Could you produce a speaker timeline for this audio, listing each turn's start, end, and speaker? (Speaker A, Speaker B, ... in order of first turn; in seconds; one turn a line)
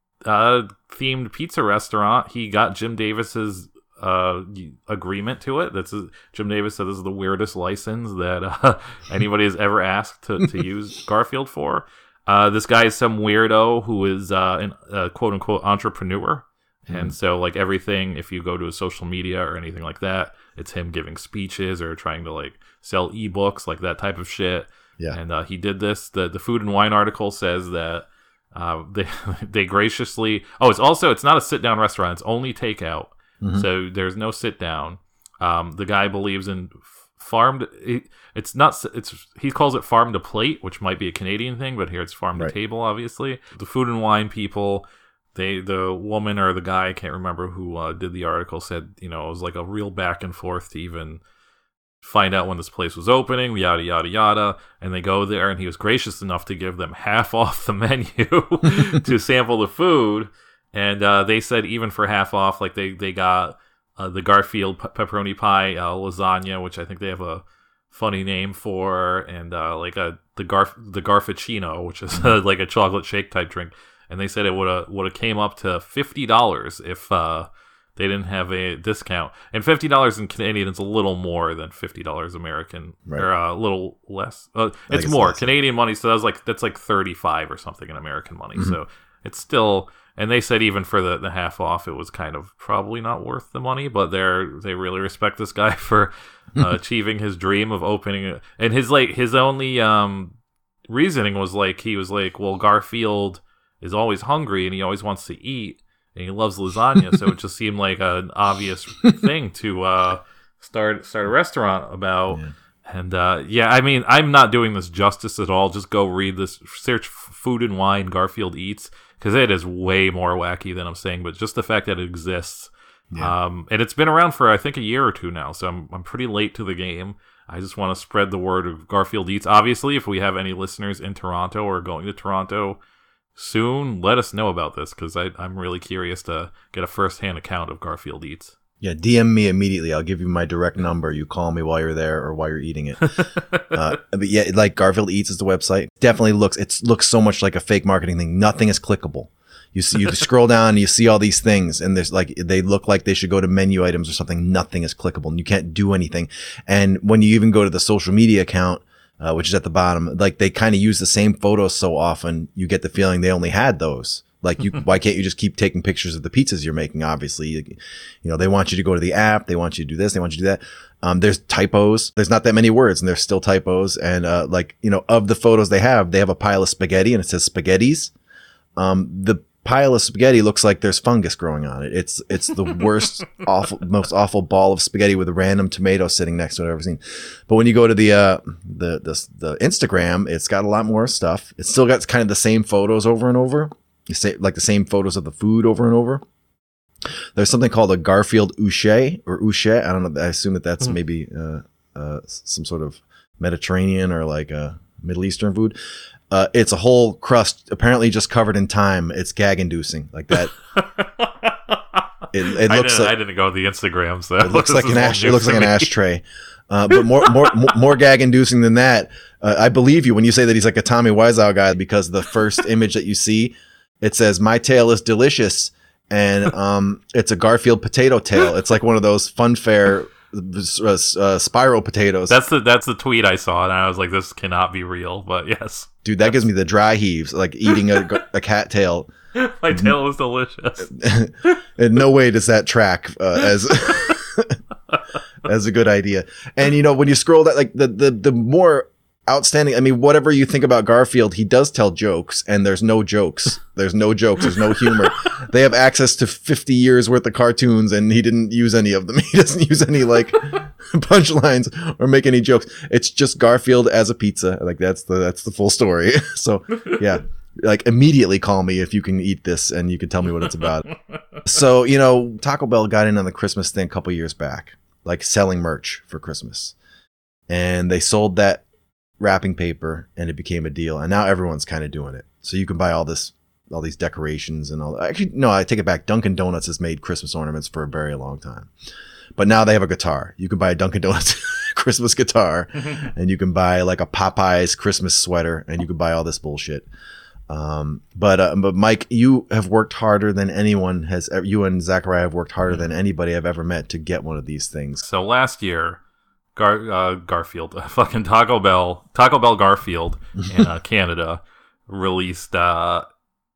Speaker A: 0.2-51.2
Speaker B: 16.9-17.1
Speaker B: 33.4-33.6
Speaker A: 52.0-100.3
Speaker B: 84.9-85.5
Speaker A: 100.9-132.8
Speaker A: 133.3-138.5
Speaker B: 138.8-143.1
Speaker A: 143.0-143.7
Speaker B: 143.7-178.1
Speaker B: 178.8-196.2
Speaker B: 197.3-205.8
Speaker B: 206.3-210.5
Speaker A: 210.7-212.0
Speaker B: 212.3-213.1
Speaker A: 212.5-215.9
Speaker B: 214.4-232.3
Speaker A: 217.2-217.6
Speaker A: 232.3-235.9
Speaker B: 236.0-239.1
Speaker A: 239.3-241.6
Speaker B: 240.9-244.6
Speaker B: 245.4-270.9
Speaker B: 271.4-276.7
Speaker B: 277.5-278.6
Speaker B: 279.2-288.7
Speaker B: 289.4-296.9
Speaker B: 297.5-305.0
Speaker A: 305.0-306.0
Speaker A: 306.6-313.1